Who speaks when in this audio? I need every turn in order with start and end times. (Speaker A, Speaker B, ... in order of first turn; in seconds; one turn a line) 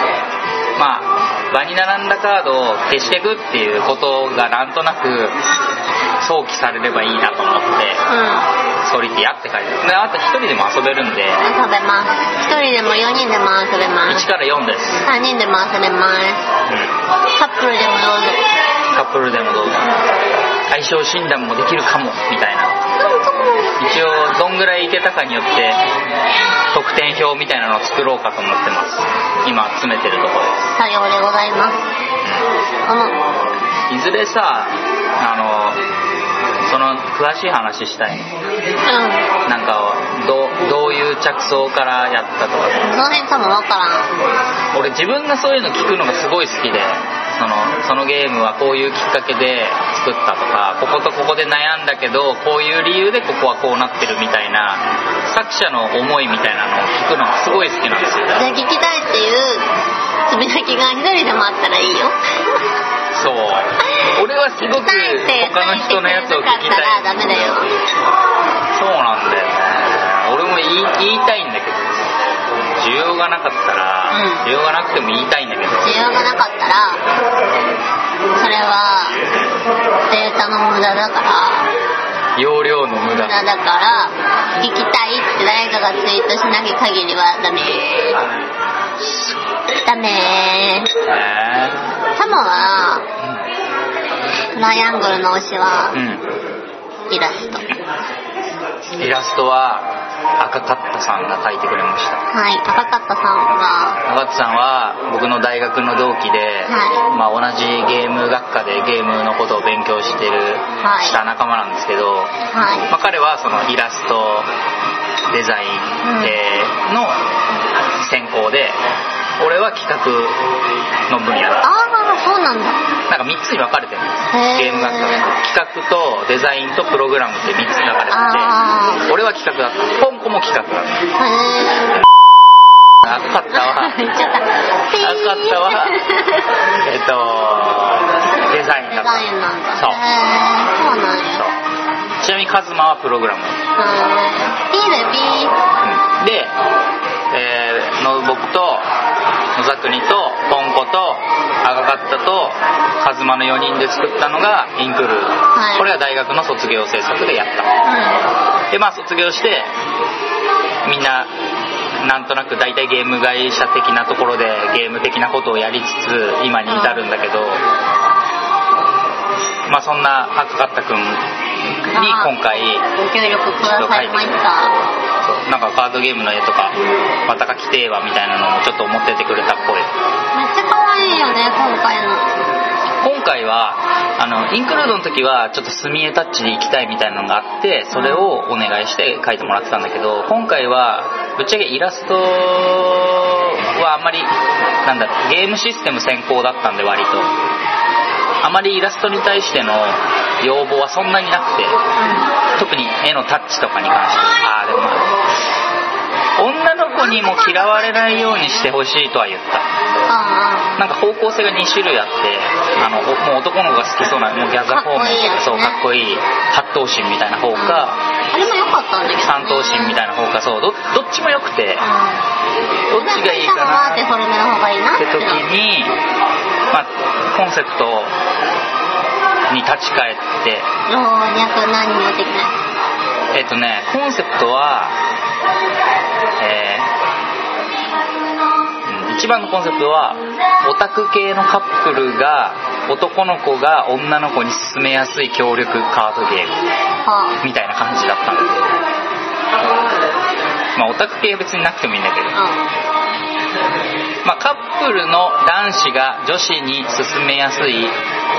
Speaker A: 0.8-5.4
Speaker A: 6.2-8.0
Speaker B: 8.1-8.5
Speaker A: 8.8-11.5
Speaker B: 11.4-14.3
Speaker A: 14.1-15.1
Speaker B: 15.0-16.4
Speaker B: 17.4-18.4
Speaker A: 18.9-20.0
Speaker A: 20.7-22.9
Speaker B: 23.0-23.8
Speaker A: 23.8-25.8
Speaker A: 26.7-30.6
Speaker B: 30.8-31.8
Speaker B: 32.9-33.2
Speaker A: 33.9-35.8
Speaker A: 36.6-38.3
Speaker B: 38.9-39.3
Speaker A: 39.5-42.9
Speaker B: 42.8-44.1
Speaker A: 44.7-58.5
Speaker B: 58.4-59.7
Speaker B: 60.3-62.2
Speaker A: 63.1-67.6
Speaker B: 64.6-67.7
Speaker A: 68.7-72.1
Speaker A: 72.8-76.0
Speaker B: 74.1-74.5
Speaker B: 75.8-77.0
Speaker B: 78.3-79.2
Speaker B: 80.1-81.7
Speaker A: 82.4-83.4
Speaker B: 83.1-88.2
Speaker A: 89.0-89.4
Speaker B: 89.8-90.9
Speaker A: 91.0-91.9
Speaker B: 92.2-93.0
Speaker B: 94.5-96.0
Speaker A: 95.9-96.3
Speaker B: 97.1-97.7
Speaker A: 99.0-102.2
Speaker B: 102.3-104.0
Speaker A: 104.0-112.4
Speaker B: 106.7-107.0
Speaker B: 110.8-111.2
Speaker B: 112.5-112.9
Speaker A: 112.9-114.5
Speaker A: 115.3-117.2
Speaker B: 116.0-116.4
Speaker A: 118.0-118.8
Speaker A: 119.4-120.4
Speaker A: 121.1-121.7
Speaker B: 121.6-122.8
Speaker A: 123.1-131.0
Speaker B: 124.3-125.3
Speaker B: 128.1-129.1
Speaker B: 131.2-132.0
Speaker A: 133.0-134.0
Speaker B: 133.5-136.5
Speaker A: 135.0-136.0
Speaker A: 136.8-140.0
Speaker B: 138.9-141.4
Speaker A: 142.2-143.6
Speaker B: 143.8-145.6
Speaker A: 145.8-146.6
Speaker A: 147.3-148.9
Speaker A: 149.6-157.7
Speaker B: 155.5-155.9
Speaker B: 157.8-158.2
Speaker A: 158.7-159.7
Speaker A: 160.8-161.3
Speaker A: 162.0-167.6
Speaker B: 166.7-167.1
Speaker A: 169.7-171.2
Speaker B: 171.9-174.8
Speaker A: 171.9-172.8
Speaker A: 173.6-174.3
Speaker A: 175.2-176.8
Speaker A: 177.3-179.9
Speaker B: 180.3-182.3
Speaker A: 183.0-194.3
Speaker B: 187.9-188.3
Speaker A: 194.8-197.3
Speaker A: 198.4-201.8
Speaker B: 202.0-202.3
Speaker A: 202.6-205.1
Speaker A: 206.4-209.7
Speaker B: 207.0-208.7
Speaker B: 210.1-210.8
Speaker A: 210.8-218.0
Speaker B: 214.7-215.8
Speaker B: 217.5-220.0
Speaker A: 219.2-221.9
Speaker B: 221.8-222.2
Speaker A: 222.9-224.1
Speaker B: 222.9-225.4
Speaker A: 225.0-226.0
Speaker A: 226.7-228.1
Speaker A: 229.5-230.7
Speaker B: 230.9-232.5
Speaker A: 233.3-235.0
Speaker A: 236.4-236.9
Speaker A: 238.8-246.6
Speaker B: 247.1-247.4
Speaker A: 247.4-248.7
Speaker A: 250.8-252.3
Speaker B: 252.3-252.6
Speaker A: 254.2-258.0